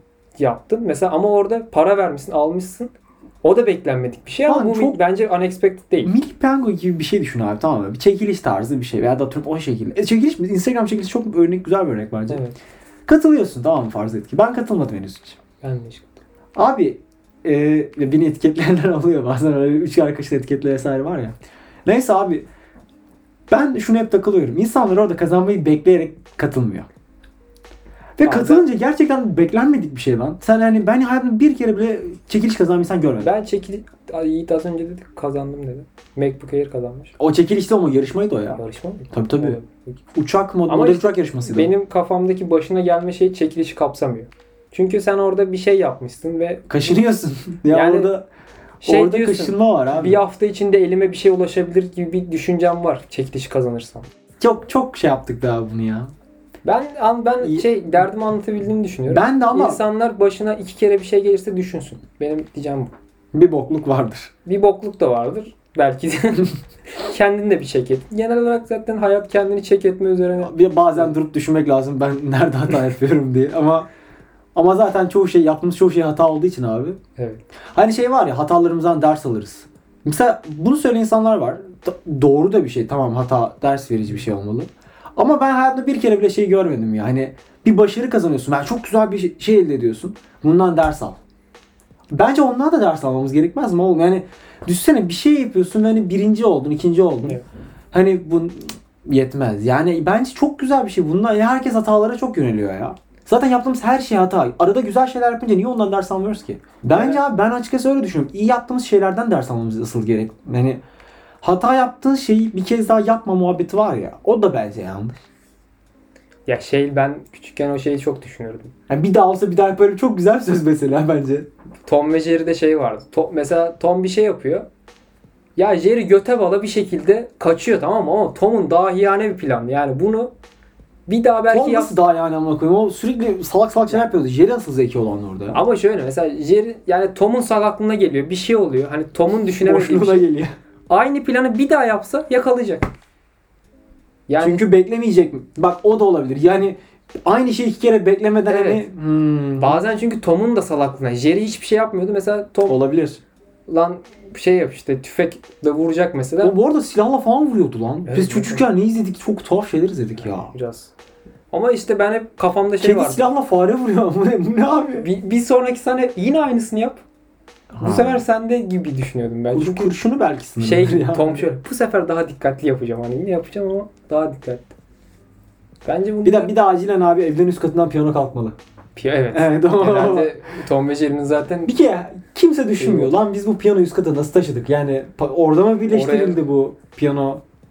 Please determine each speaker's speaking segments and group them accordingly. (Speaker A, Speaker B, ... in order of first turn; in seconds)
Speaker A: 0.4-6.1, 12.3-12.6, 15.6-16.2, 28.2-28.7, 33.2-37.1, 38.5-40.0, 40.7-47.0, 47.7-48.1, 48.8-54.1, 56.6-62.9, 64.5-71.1, 77.2-77.4, 106.9-107.2, 116.5-118.7, 121.8-124.7, 125.5-130.3, 131.1-132.0, 135.5-140.3, 140.9-142.9, 144.3-144.7, 148.5-148.8, 149.6-152.8, 153.7-156.5, 158.1-158.6, 160.2-160.9, 161.5-163.2, 165.0-167.0, 167.8-169.9, 170.6-174.7, 175.8-176.5, 178.9-181.8, 182.8-183.2, 185.9-186.4
Speaker B: 4.5-5.0, 6.0-12.4, 13.1-15.4, 16.5-22.5, 23.5-26.9, 28.2-33.3, 37.2-38.6, 39.1-39.6, 40.1-41.7, 46.7-48.3, 48.8-50.2, 54.4-56.1, 57.4-57.7, 59.1-59.8, 63.3-64.3, 70.4-73.9, 74.5-77.0, 77.7-91.2, 92.1-97.4, 97.9-110.8, 111.4-115.2, 118.9-121.5, 131.5-135.6, 139.4-140.5, 144.4-149.8, 152.7-153.2, 156.4-160.5, 162.8-165.1, 167.7-168.2, 169.5-171.4, 176.2-178.6, 179.3-180.3, 181.7-187.4